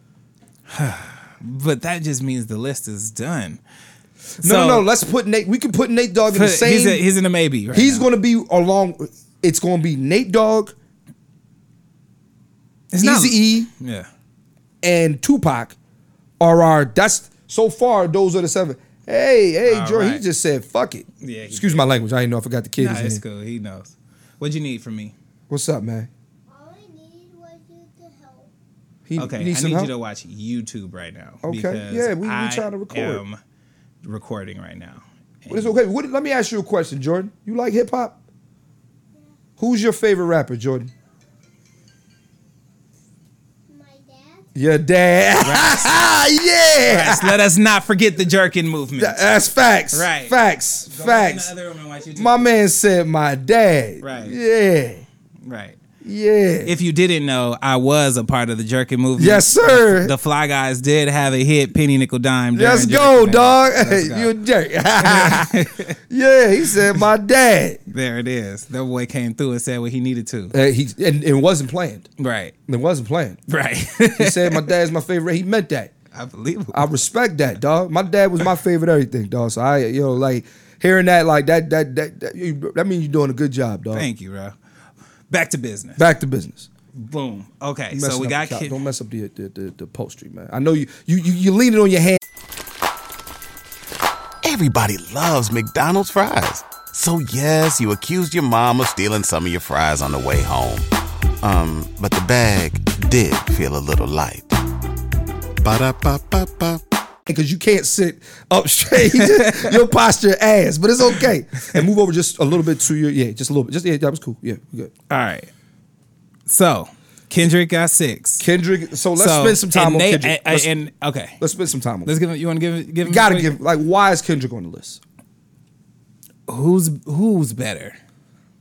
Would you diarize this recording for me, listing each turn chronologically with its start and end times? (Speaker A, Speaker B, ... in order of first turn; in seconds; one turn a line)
Speaker A: 0.7-3.6
Speaker B: 4.4-7.0
Speaker A: 4.4-4.9
Speaker A: 6.3-8.1
Speaker B: 7.7-10.7
Speaker A: 12.9-14.1
Speaker B: 13.0-13.7
Speaker B: 14.8-15.8
Speaker B: 16.4-23.2
Speaker A: 19.6-20.2
Speaker A: 21.2-21.8
Speaker A: 22.8-25.1
Speaker B: 25.5-26.1
Speaker C: 26.5-28.5
Speaker B: 29.1-29.9
Speaker A: 29.2-33.4
Speaker B: 31.4-33.2
Speaker A: 34.0-35.7
Speaker B: 35.5-38.2
Speaker B: 39.6-40.9
Speaker C: 43.7-44.5
Speaker B: 44.6-47.4
Speaker A: 45.4-45.9
Speaker A: 46.9-49.2
Speaker B: 49.0-51.5
Speaker A: 49.9-52.5
Speaker B: 52.2-55.0
Speaker A: 54.0-54.4
Speaker A: 55.4-55.8
Speaker B: 56.0-56.7
Speaker A: 56.6-64.3
Speaker B: 59.2-60.1
Speaker B: 62.5-67.8
Speaker A: 65.0-66.0
Speaker A: 67.9-70.6
Speaker B: 70.5-72.1
Speaker A: 72.2-72.5
Speaker B: 72.7-73.4
Speaker A: 73.5-74.7
Speaker B: 74.1-75.9
Speaker A: 76.1-76.9
Speaker B: 76.7-84.1
Speaker A: 83.9-84.5
Speaker A: 85.3-86.0
Speaker B: 86.0-86.7
Speaker A: 87.0-88.8
Speaker B: 87.9-92.2
Speaker D: 94.4-100.9
Speaker D: 101.4-104.6
Speaker D: 105.6-106.8
Speaker B: 107.3-114.9
Speaker A: 109.0-109.8
Speaker A: 115.1-115.5
Speaker A: 116.5-118.4
Speaker B: 118.4-120.7
Speaker A: 119.2-121.4
Speaker B: 121.4-122.1
Speaker A: 122.0-123.5
Speaker B: 123.0-125.0
Speaker A: 126.5-128.0